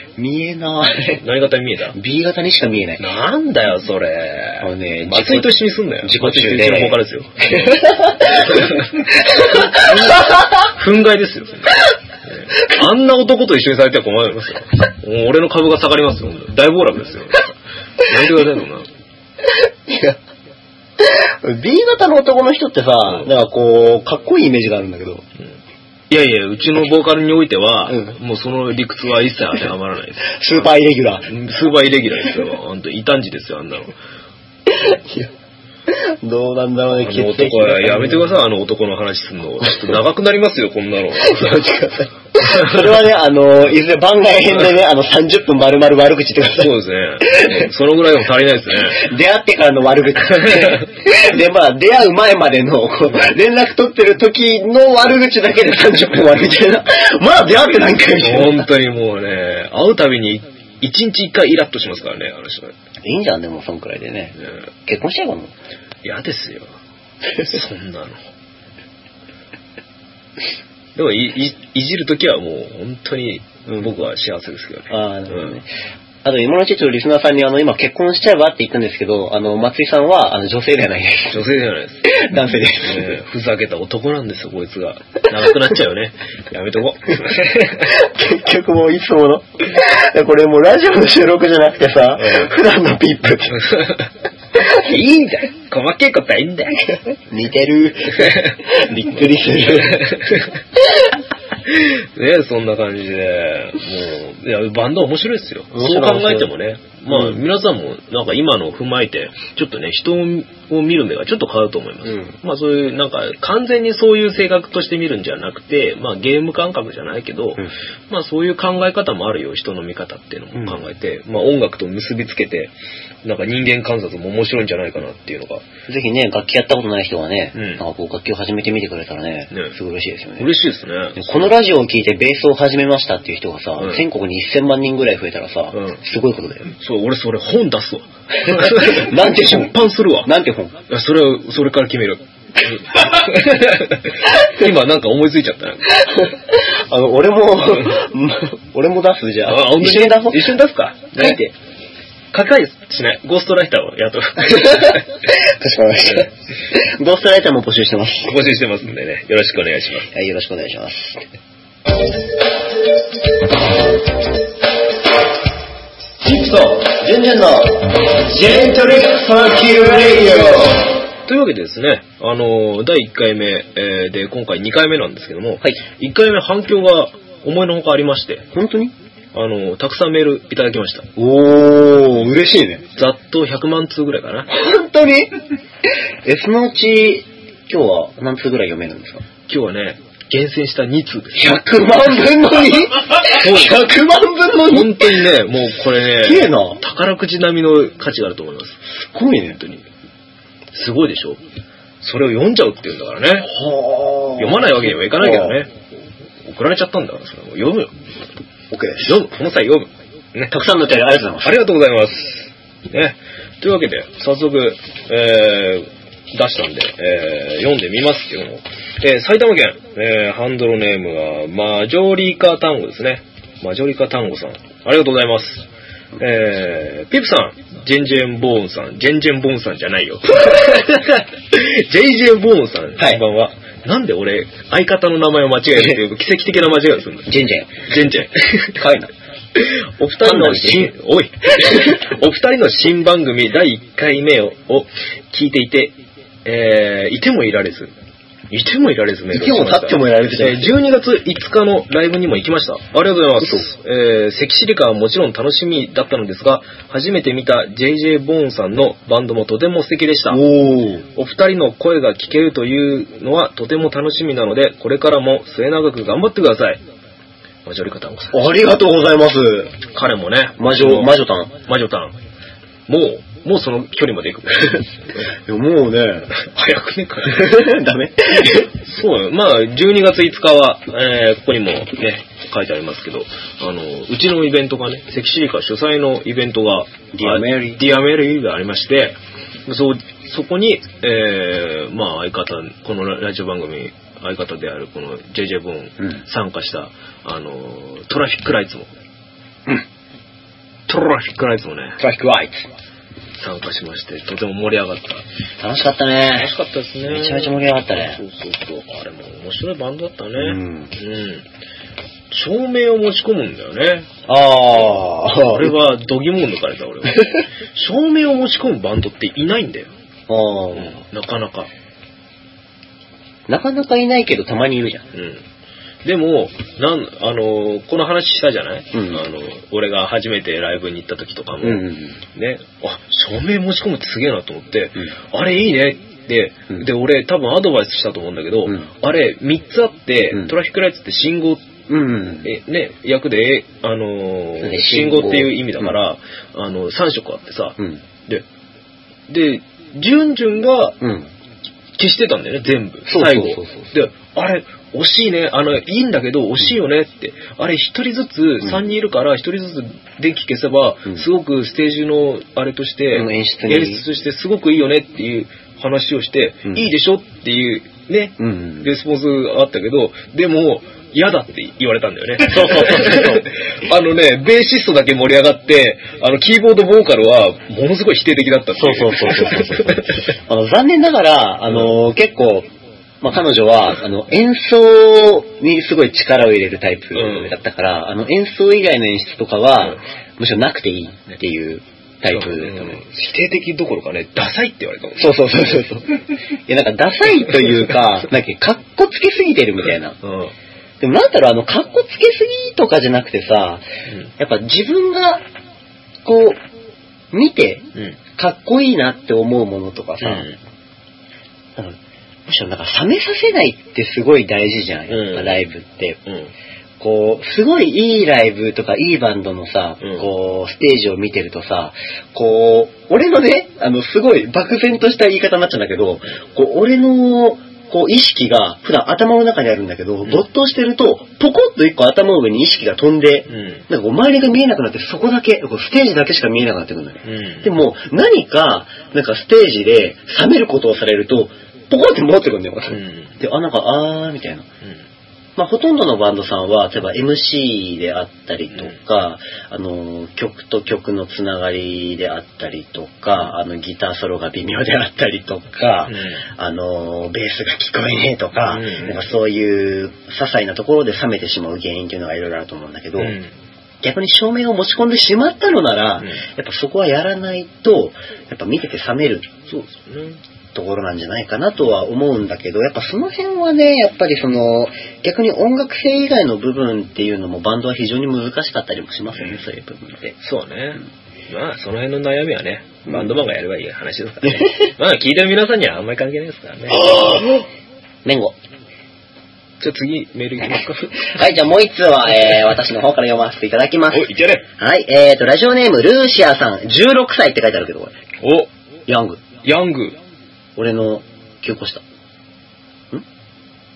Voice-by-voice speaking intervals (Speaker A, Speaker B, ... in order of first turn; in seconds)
Speaker A: 0.1-1.2, 1.9-3.1, 4.6-10.4, 19.6-20.2, 21.0-25.2, 27.9-28.1, 30.3-31.3, 34.7-35.3, 35.9-38.3, 39.6-39.9, 41.2-47.6, 48.8-58.7, 63.0-65.5, 74.9-75.7, 76.2-81.4, 82.0-83.1, 87.8-93.6, 97.3-100.4, 105.7-106.5, 107.1-107.4, 112.0-112.3, 125.9-130.5, 131.2-136.7, 138.4-140.7, 146.0-150.6, 151.1-151.5, 154.5-158.4, 160.1-161.2, 166.2-170.9, 178.5-178.9, 181.2-182.8, 184.5-185.3, 186.2-189.2, 191.3-195.3, 196.2-196.8, 199.0-199.6, 203.5-205.6, 208.7-209.2, 210.5-211.6, 237.3-237.8, 238.7-239.1, 240.2-240.9, 241.6-241.9, 249.3-250.7, 260.3-261.1, 268.3-269.8, 270.6-271.5, 275.4-276.3, 277.3-278.7, 287.1-287.8, 302.0-302.7, 305.6-306.5, 307.0-308.2, 310.4-310.9, 314.3-315.7, 320.3-321.0, 323.5-325.1, 328.9-329.2, 331.6-332.2, 341.9-342.5, 344.6-345.9, 351.0-351.3, 353.1-353.9, 363.1-364.0, 368.4-368.9, 372.4-373.5, 378.7-382.7, 383.2-393.0, 395.2-400.2, 401.0-403.8, 404.4-405.4, 406.2-406.6, 407.3-410.5, 411.8-416.2, 417.0-444.6, 445.6-463.4, 464.0-469.5, 470.7-480.3, 488.2-488.5, 491.2-498.1, 499.1-499.4, 500.8-502.0
Speaker B: 1.1-2.0, 3.0-8.9, 9.4-18.9, 26.1-30.7, 31.3-33.9, 36.9-41.6, 42.4-42.8, 46.6-49.1, 50.4-50.7, 58.2-62.7, 66.0-66.7, 67.3-68.2, 71.0-75.6, 81.3-82.2, 82.8-87.9, 92.2-92.5, 93.5-94.1, 94.7-97.0, 98.2-98.5, 99.7-100.5, 101.7-122.7, 123.2-125.6, 127.5-127.8, 130.4-131.5, 133.8-134.0, 135.7-136.0, 136.8-140.3, 140.9-146.0, 149.4-151.4, 152.3-155.1, 158.2-160.1, 171.2-178.5, 179.3-181.1, 182.9-184.5, 189.5-191.6, 193.2-193.8, 194.7-198.8, 199.6-199.8, 200.7-201.4, 202.0-203.5, 204.4-205.7, 206.4-207.9, 209.0-210.5, 211.4-225.7, 226.2-237.3, 237.9-238.8, 239.6-247.9, 248.5-260.4, 261.1-266.8, 267.6-268.5, 269.9-272.1, 272.9-274.9, 276.3-277.6, 278.5-298.9, 300.9-302.0, 303.4-305.2, 306.3-311.4, 312.3-314.1, 315.5-319.9, 320.7-321.7, 325.1-325.4, 326.0-341.7, 342.4-348.4, 349.3-351.0, 352.0-380.2, 387.1-387.5, 392.3-395.4, 400.2-400.5, 410.2-410.6, 415.1-415.6, 416.2-416.5, 420.0-420.2, 433.5-433.8, 437.2-437.7, 442.9-443.3, 456.1-456.4, 458.7-459.2, 463.2-463.5, 469.7-470.4, 480.4-487.4, 489.8-491.3, 494.1-494.6, 498.4-498.7, 499.6-500.2